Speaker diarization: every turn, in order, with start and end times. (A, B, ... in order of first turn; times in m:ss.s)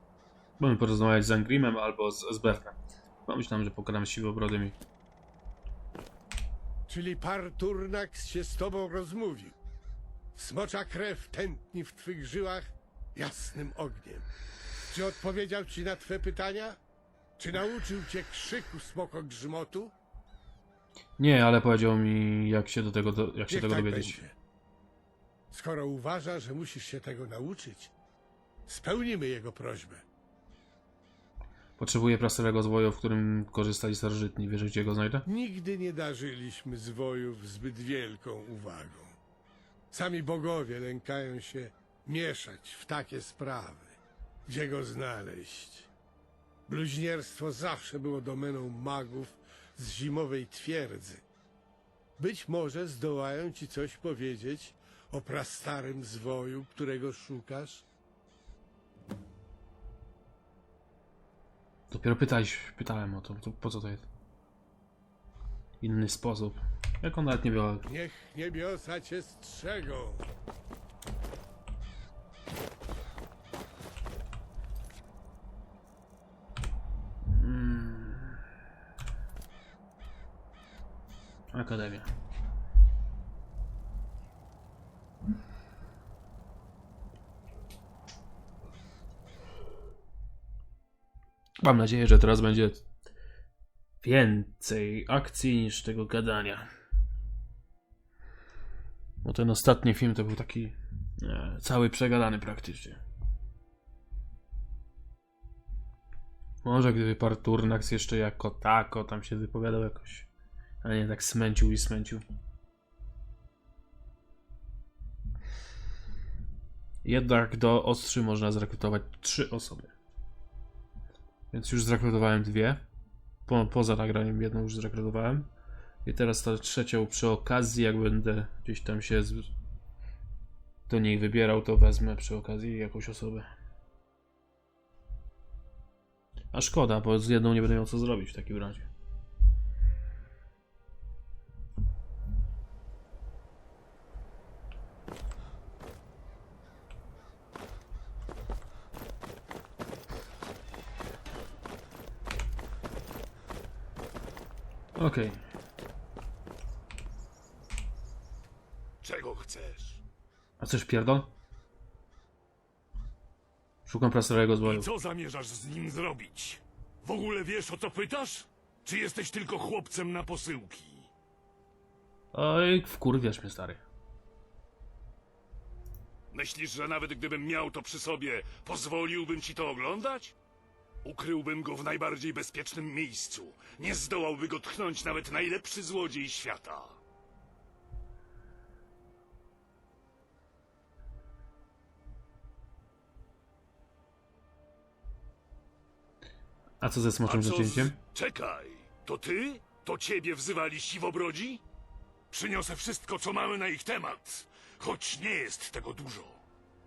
0:00.6-0:04.8 A
0:06.9-0:09.6 B
0:10.4-0:14.3 B
0:14.9-0:16.8 B
0:17.4-0:19.9 B
0:21.2-0:24.2 A
0:23.5-0:24.4 B
0:25.5-0:27.9 B
0:28.7-0:30.0 B
0:31.8-0:35.2 A
0:35.3-0:39.2 B
0:39.9-0:45.9 B
0:46.7-0:51.2 B
0:52.2-0:57.8 B
1:01.9-1:04.1 A
1:05.8-1:07.9 A
1:07.9-1:10.2 B
1:17.3-1:18.4 A
1:21.5-1:22.1 A
1:31.6-1:32.8 A
1:34.0-1:36.7 A
1:39.2-1:43.0 A
1:46.6-1:50.3 A
1:50.8-1:52.2 A
1:57.0-1:59.9 A
2:01.5-2:02.8 A
2:03.5-2:05.5 A
2:06.0-2:09.5 A
2:10.9-2:13.5 A
2:16.5-2:18.9 A
2:35.0-2:35.4 A
2:39.0-2:40.0 C
2:40.6-2:41.3 A
2:43.9-2:44.9 A
2:44.6-2:51.1 C
2:52.3-2:53.8 A
2:56.3-3:00.3 C
3:01.0-3:07.0 C
3:16.8-3:18.0 A
3:17.3-3:21.6 C
3:22.3-3:26.4 C